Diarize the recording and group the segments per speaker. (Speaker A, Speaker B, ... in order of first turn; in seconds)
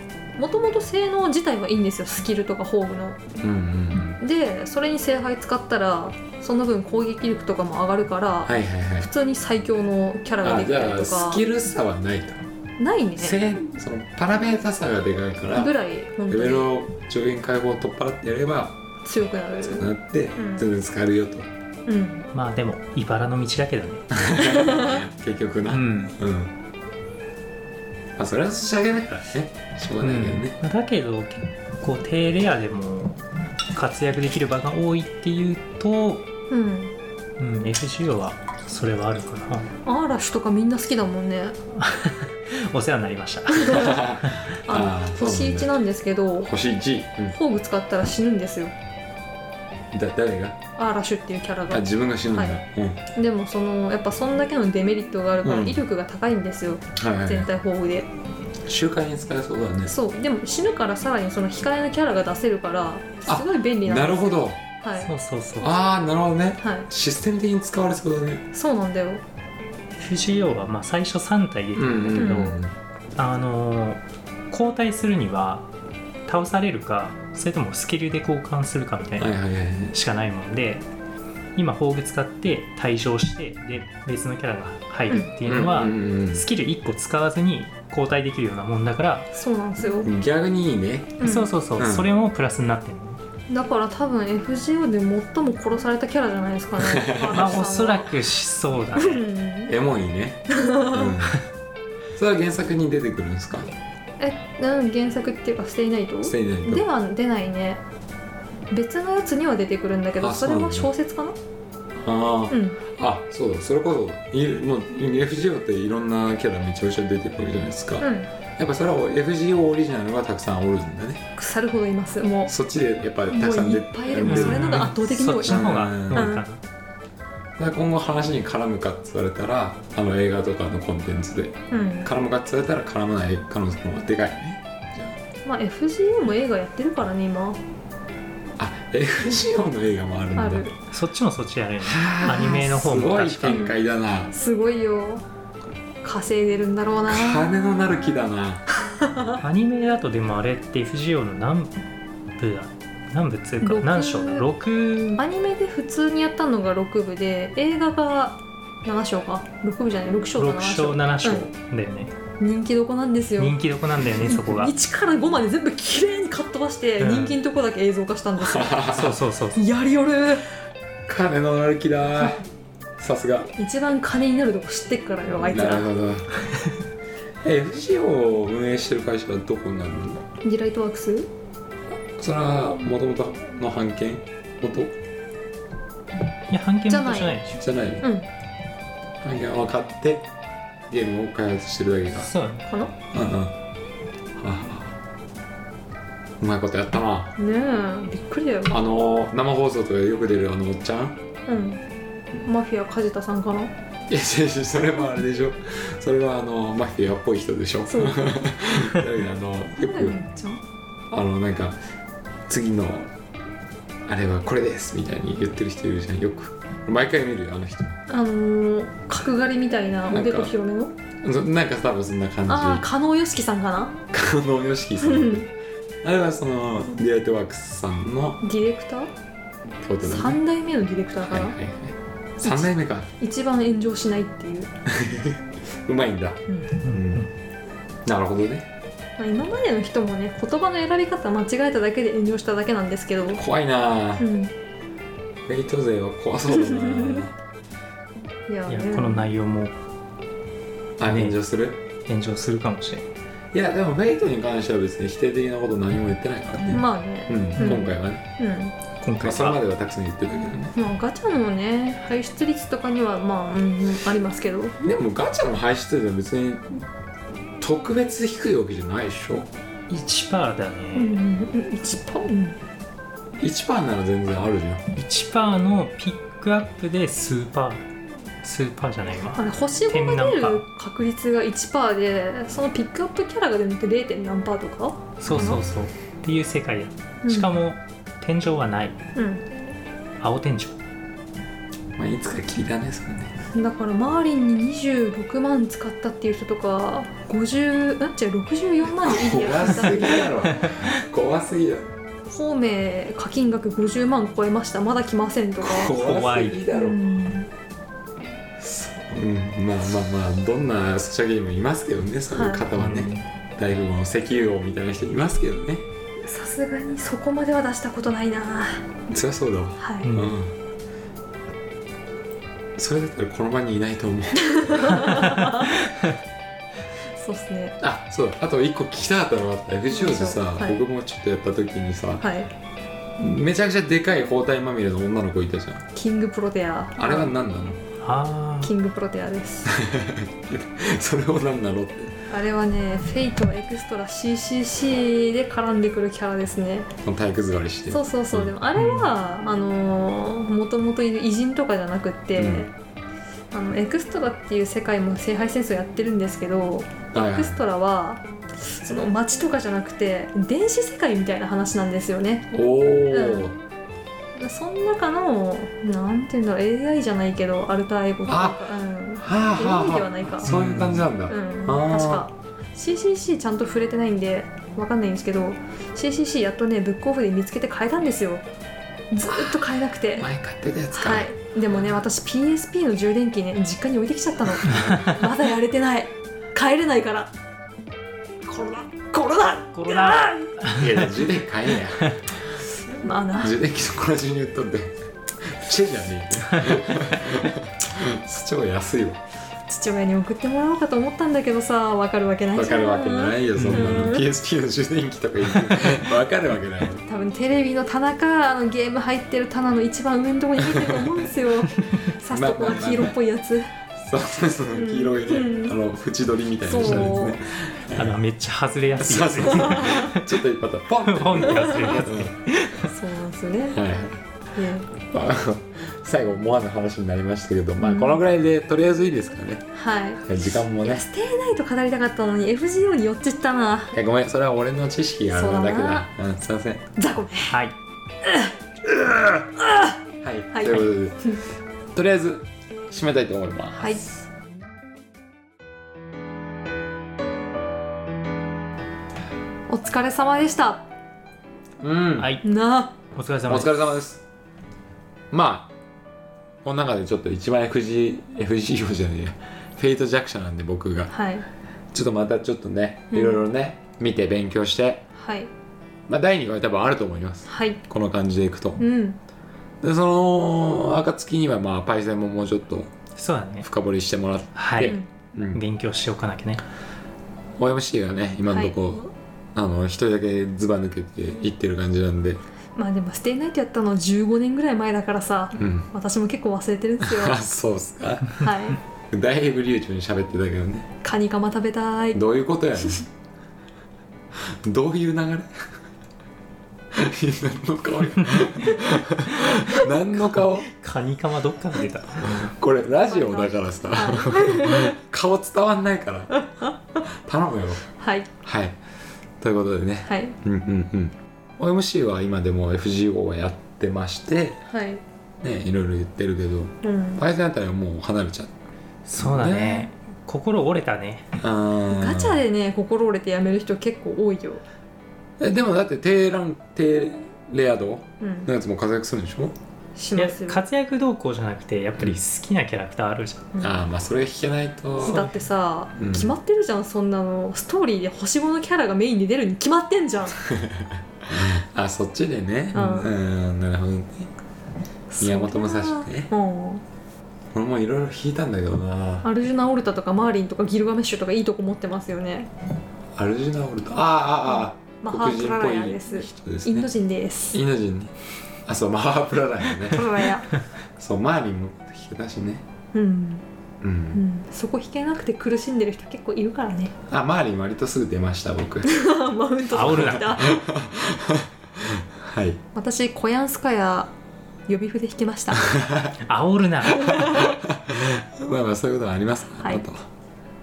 Speaker A: 0.3-3.2, 4.2-11.4, 12.8-13.4, 15.6-16.7, 19.0-20.6, 21.9-22.3, 24.4-25.0, 36.5-36.9, 39.8-41.6, 43.5-44.0, 44.7-46.5, 47.3-48.7, 50.8-52.6, 53.1-58.1, 59.8-65.1, 66.6-66.9, 68.5-69.2, 72.2-72.5, 89.3-90.1, 91.2-91.5, 93.5-98.1, 99.0-99.7, 100.5-101.1, 104.2-107.8, 108.7-111.3, 112.5-112.8, 118.0-118.3, 121.3-122.5, 123.3-126.5, 131.7-132.1, 135.4-137.6, 140.3-140.7, 142.2-142.6, 143.5-143.7, 144.3-145.2, 146.0-147.5, 149.0-149.3, 153.6-154.4, 155.1-161.5, 162.4-163.6, 164.1-168.8, 169.6-170.4, 173.6-175.9, 180.4-181.3, 186.9-187.4, 188.0-188.3, 192.7-192.9, 197.4-198.8, 201.5-201.8, 202.4-203.7, 207.9-208.2, 209.8-210.6, 218.1-220.9, 222.5-223.9, 225.0-225.5, 228.4-229.1, 230.0-231.6, 232.4-234.7, 236.5-236.8, 239.2-243.4, 244.2-244.5, 246.5-247.2, 248.5-249.3, 256.7-258.7, 260.7-264.8, 270.9-272.6, 279.3-285.6, 287.2-287.5, 289.1-289.4, 293.5-300.5, 302.3-305.9, 306.7-307.5, 312.3-312.6, 316.2-318.9, 319.8-320.1, 324.4-325.7, 327.1-327.8, 329.9-330.8, 332.2-332.5, 335.9-337.3, 338.6-339.7, 342.3-346.9, 347.9-352.7, 353.5-362.5, 363.1-363.5, 364.4-370.5, 371.3-378.4, 379.1-380.3, 380.9-387.3, 388.4-390.6, 393.0-393.6, 399.7-404.2, 407.1-413.7, 414.7-415.8, 416.6-417.4, 419.5-420.1, 422.8-423.8, 424.5-424.9, 427.8-428.2, 429.7-433.9, 435.3-436.1, 436.9-437.6, 438.2-438.5, 439.6-440.0, 440.5-441.4, 443.8-444.1, 449.7-450.9, 452.4-452.9, 461.1-461.4, 463.1-463.4, 465.1-465.5, 467.4-467.8, 468.8-469.2, 474.8-475.1, 478.5-479.1, 482.8-487.4, 488.4-488.8, 491.0-492.2, 503.1-504.9, 506.4-507.0, 508.0-508.3, 510.1-510.4, 514.7-515.0, 516.8-517.2, 521.9-524.6, 528.2-528.5, 530.0-530.6, 533.5-533.8, 535.0-540.4, 542.7-543.1, 545.1-546.8, 549.2-552.5, 554.5-557.6, 559.9-560.5, 562.9-563.4, 564.1-566.9, 568.8-570.5, 572.7-574.1, 574.7-575.7, 576.9-577.5
Speaker B: 3.4-4.2, 8.4-9.1, 10.4-12.4, 13.2-15.7, 16.3-18.8, 19.6-21.5, 24.1-26.5, 28.2-30.6, 43.6-45.7, 46.4-47.4, 49.9-50.6, 51.7-53.0, 55.4-55.8, 57.0-57.5, 58.6-59.9, 63.2-64.6, 65.6-68.4, 71.7-72.7, 79.2-79.9, 85.4-86.5, 90.0-91.2, 91.8-92.1, 96.8-97.5, 99.7-101.4, 102.1-103.7, 106.2-106.9, 110.2-110.9, 112.0-121.2, 122.5-124.9, 125.4-126.3, 127.6-135.2, 138.6-140.7, 141.8-144.3, 147.1-148.6, 168.4-169.2, 171.1-172.4, 173.0-173.5, 175.5-176.3, 177.4-180.2, 181.9-184.9, 187.5-188.0, 189.2-190.3, 190.9-192.3, 193.1-193.6, 194.3-195.0, 196.4-197.3, 198.7-201.2, 204.1-210.2, 211.1-211.8, 212.5-213.1, 214.1-218.0, 220.1-220.5, 221.2-222.8, 224.1-225.5, 226.0-228.4, 229.8-230.4, 231.2-233.1, 234.9-237.3, 238.0-238.7, 243.3-244.3, 245.4-247.3, 251.0-251.8, 253.5-258.2, 259.2-260.7, 264.8-266.8, 267.6-269.5, 273.4-274.8, 285.3-285.6, 291.9-293.3, 299.0-301.9, 305.6-307.0, 308.6-315.8, 319.1-320.5, 322.8-325.3, 327.8-332.3, 333.2-335.8, 337.0-337.8, 339.7-342.1, 347.0-348.5, 352.4-352.7, 357.1-357.6, 362.5-363.6, 368.2-368.6, 369.2-372.2, 379.3-379.6, 380.1-381.3, 384.6-385.1, 390.7-392.5, 393.4-399.2, 402.5-407.0, 412.3-413.1, 414.0-418.2, 419.0-422.3, 423.7-424.2, 425.0-429.6, 430.2-431.0, 433.9-436.8, 440.2-441.2, 441.9-444.0, 451.8-452.3, 453.5-454.2, 455.3-455.7, 456.6-461.1, 461.9-465.0, 466.1-468.8, 469.8-472.9, 473.6-475.6, 477.6-479.0, 479.5-482.4, 485.5-485.9, 487.0-488.5, 489.1-490.9, 492.1-493.1, 494.3-495.6, 496.9-500.7, 502.2-506.4, 507.1-507.8, 508.4-508.8, 509.4-514.6, 515.4-518.5, 519.1-519.9, 521.4-522.4, 525.4-529.5, 533.6-535.2, 536.0-536.3, 540.5-544.3, 545.2-546.3, 547.5-549.3, 553.1-556.9, 557.5-558.1, 558.6-560.2, 561.0-562.6, 563.8-564.2, 567.1-568.9, 569.9-572.6, 575.6-576.1, 577.0-580.0
Speaker C: 22.3-24.1, 25.7-26.1, 30.0-33.2, 33.7-36.2, 37.4-39.7, 41.8-44.5, 65.0-65.7, 69.9-72.6, 73.2-75.6, 76.3-79.3, 79.9-80.8, 81.5-89.3, 91.2-93.2, 97.3-99.2, 124.2-126.6, 140.9-143.7, 149.4-151.8, 152.4-155.2, 160.4-162.1, 163.4-164.7, 167.0-167.4, 168.9-169.6, 186.5-187.5, 192.1-192.7, 236.8-237.3, 248.7-249.7, 251.1-251.4, 252.1-253.0, 259.0-259.6, 269.9-271.2, 274.9-277.8, 278.4-280.6, 285.2-289.0, 290.2-290.8, 305.9-306.6, 312.7-313.2, 320.0-320.3, 338.0-338.7, 348.8-349.1, 370.4-371.1, 389.7-391.1, 403.6-404.1, 416.8-417.1, 417.9-420.3, 421.1-422.9, 452.2-452.4, 453.0-453.8, 473.2-473.7, 474.6-476.6, 500.6-502.5, 519.1-521.3, 530.1-533.5, 569.7-570.4, 576.2-577.2